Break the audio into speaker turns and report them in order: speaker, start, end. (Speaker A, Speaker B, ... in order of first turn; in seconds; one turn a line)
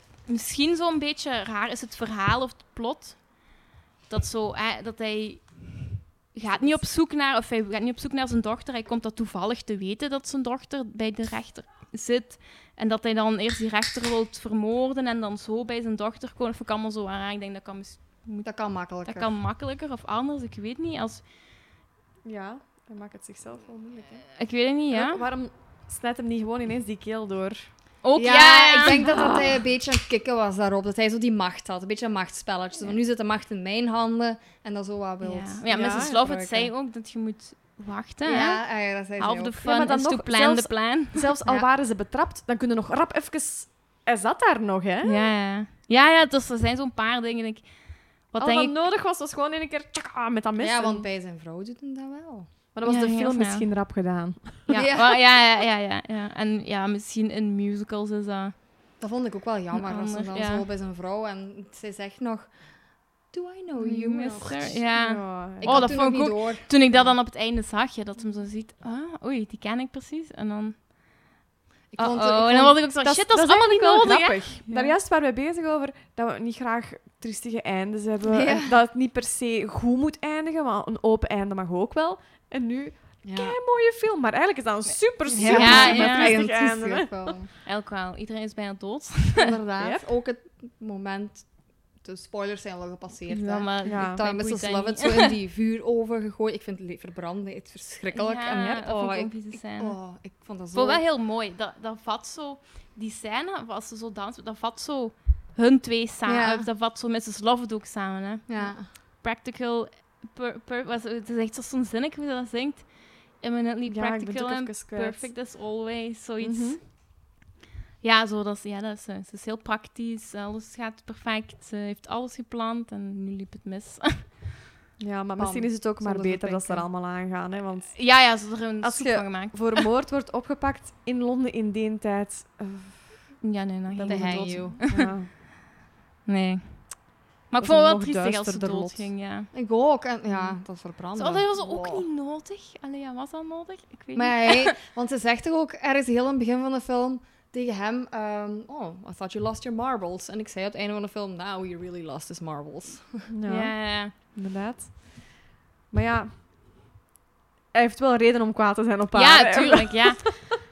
Speaker A: 0.2-21.2
Speaker B: 18.4-19.3
Speaker C: 22.2-24.4
Speaker A: 24.4-25.2
Speaker C: 24.9-27.8
Speaker A: 28.0-29.2
Speaker B: 28.1-36.7
Speaker C: 29.0-29.5
Speaker A: 35.2-41.3
Speaker C: 35.7-36.2
Speaker B: 38.2-39.6
Speaker C: 39.6-45.3
Speaker A: 45.0-48.8
Speaker C: 48.4-51.1
Speaker B: 50.6-52.6
Speaker C: 52.7-54.7
Speaker A: 52.8-53.9
Speaker A: 54.6-59.0
Speaker B: 54.7-55.2
Speaker B: 59.0-64.9
Speaker A: 59.7-60.6
Speaker A: 63.8-71.2
Speaker C: 64.8-66.0
Speaker B: 65.6-67.2
Speaker B: 71.9-72.9
Speaker A: 72.0-75.0
Speaker C: 72.9-87.5
Speaker B: 78.3-78.7
Speaker B: 83.2-83.6
Speaker A: 84.9-86.4
Speaker B: 85.3-87.5
Speaker A: 87.6-89.4
Speaker B: 89.3-101.0
Speaker C: 89.8-90.1
Speaker A: 93.3-95.3
Speaker C: 93.8-94.2
Speaker A: 98.1-100.1
Speaker C: 98.5-99.0
Speaker A: 100.7-116.8
Speaker B: 106.2-106.7
Speaker B: 108.5-108.9
Speaker C: 113.8-115.5
Speaker C: 116.4-116.8
Speaker A: 118.0-124.4
Speaker C: 125.0-135.3
Speaker B: 125.4-126.9
Speaker A: 127.9-129.9
Speaker A: 133.4-135.4
Speaker B: 134.1-134.8
Speaker A: 136.2-139.5
Speaker C: 137.6-139.2
Speaker B: 139.5-142.1
Speaker A: 140.3-144.7
Speaker B: 144.1-153.3
Speaker C: 153.3-156.4
Speaker A: 153.4-154.1
Speaker C: 157.7-160.5
Speaker A: 159.1-160.3